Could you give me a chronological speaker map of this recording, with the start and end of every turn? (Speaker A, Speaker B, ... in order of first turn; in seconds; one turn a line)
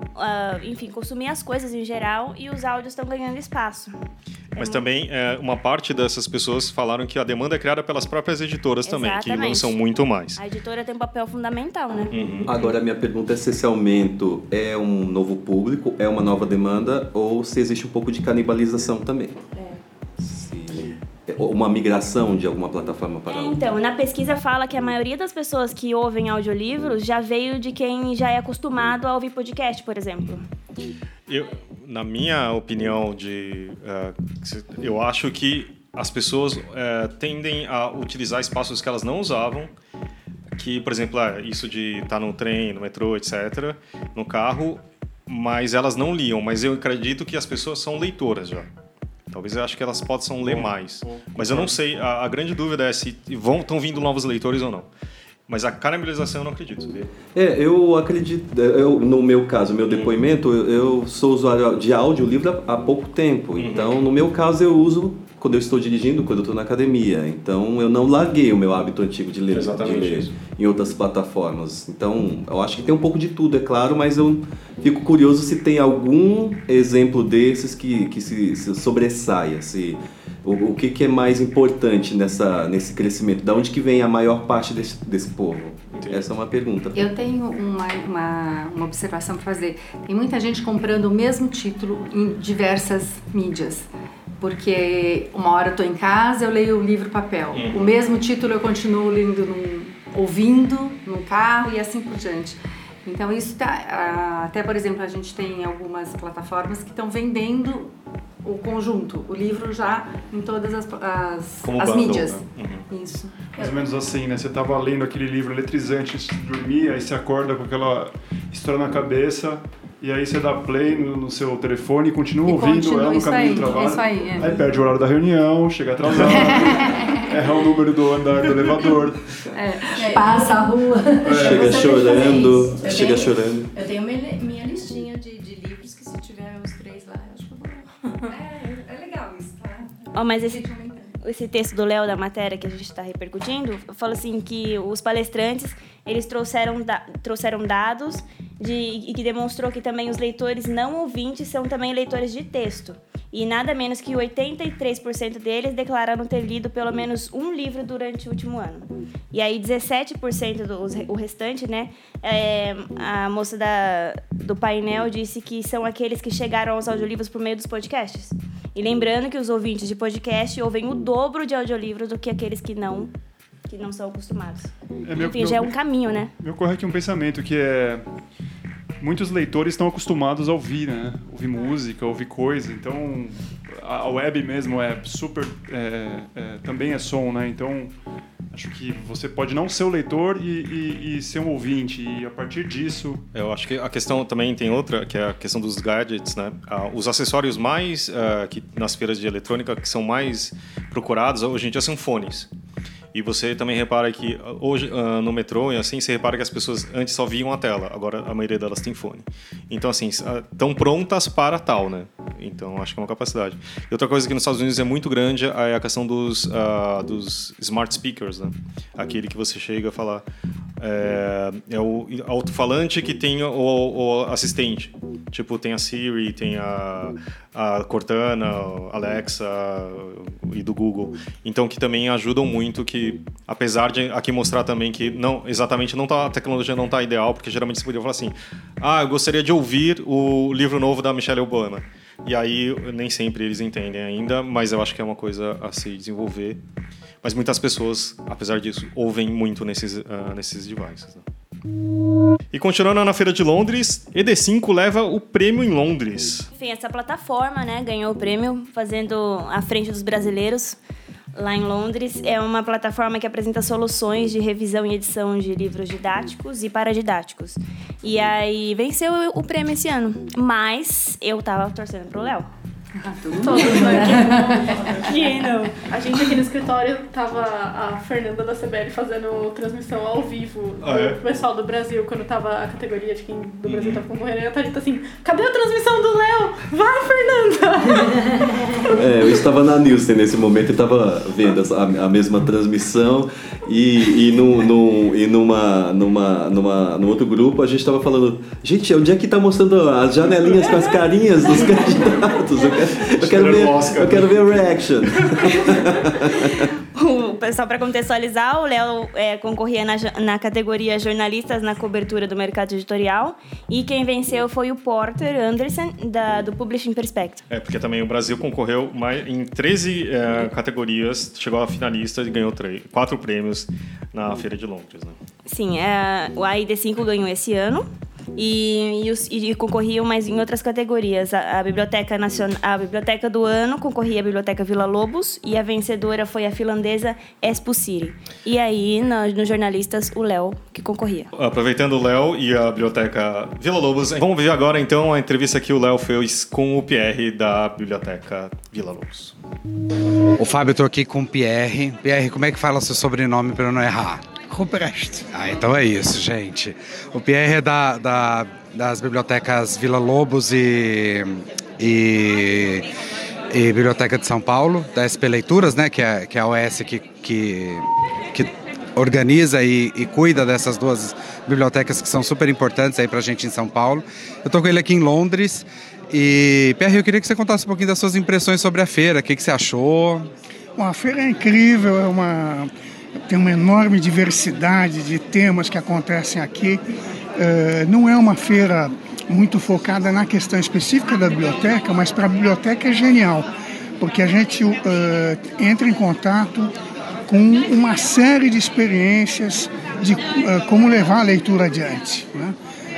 Speaker A: 0.1-3.9
Speaker A: 4.5-4.8
Speaker B: 4.5-10.4
Speaker A: 8.8-9.8
Speaker A: 10.3-12.1
Speaker B: 12.1-12.5
Speaker C: 12.4-19.4
Speaker C: 20.2-23.7
Speaker A: 23.3-30.4
Speaker B: 31.3-39.7
Speaker B: 40.5-48.7
Speaker B: 49.3-54.9
Speaker D: 50.4-51.8
Speaker B: 55.5-57.1
Speaker C: 57.3-87.0
Speaker B: 59.9-60.1
Speaker B: 63.5-63.9
Speaker B: 69.5-70.3
Speaker B: 85.9-86.2
Speaker E: 86.9-93.9
Speaker E: 94.4-107.9
Speaker B: 97.5-98.0
Speaker E: 108.4-113.8
Speaker B: 111.6-112.9
Speaker D: 113.5-129.2
Speaker E: 122.5-124.6
Speaker C: 124.4-124.8
Speaker E: 126.2-127.1
Speaker E: 129.5-133.2
Speaker F: 129.9-130.7
Speaker D: 131.2-131.9
Speaker F: 131.2-138.4
Speaker C: 131.4-133.7
Speaker E: 138.2-139.9
Speaker A: 140.1-140.6
Speaker E: 140.5-141.1
Speaker A: 141.2-173.1
Speaker A: 173.7-176.3
Speaker D: 175.0-175.7
Speaker D: 176.4-178.0
Speaker D: 179.0-187.9
Speaker D: 188.5-193.2
Speaker B: 193.3-202.5
Speaker B: 203.1-220.2
Speaker B: 220.8-246.6
Speaker B: 247.2-251.2
Speaker B: 252.5-256.5
Speaker A: 256.5-260.8
Speaker A: 261.3-272.5
Speaker E: 273.0-275.1
Speaker G: 273.4-275.1
Speaker A: 273.7-274.1
Speaker A: 275.0-275.9
Speaker G: 275.8-289.4
Speaker B: 280.8-281.2
Speaker B: 283.6-284.0
Speaker C: 288.9-306.7
Speaker B: 303.1-304.5
Speaker B: 305.1-305.8
Speaker A: 306.9-317.4
Speaker B: 317.5-325.2
Speaker A: 325.5-341.3
Speaker B: 341.3-349.3
Speaker H: 350.4-354.3
Speaker I: 354.5-355.3
Speaker H: 355.3-362.9
Speaker H: 363.5-380.3
Speaker I: 380.8-382.7
Speaker I: 383.3-386.8
Speaker I: 387.4-393.5
Speaker I: 394.0-396.7
Speaker I: 397.3-402.6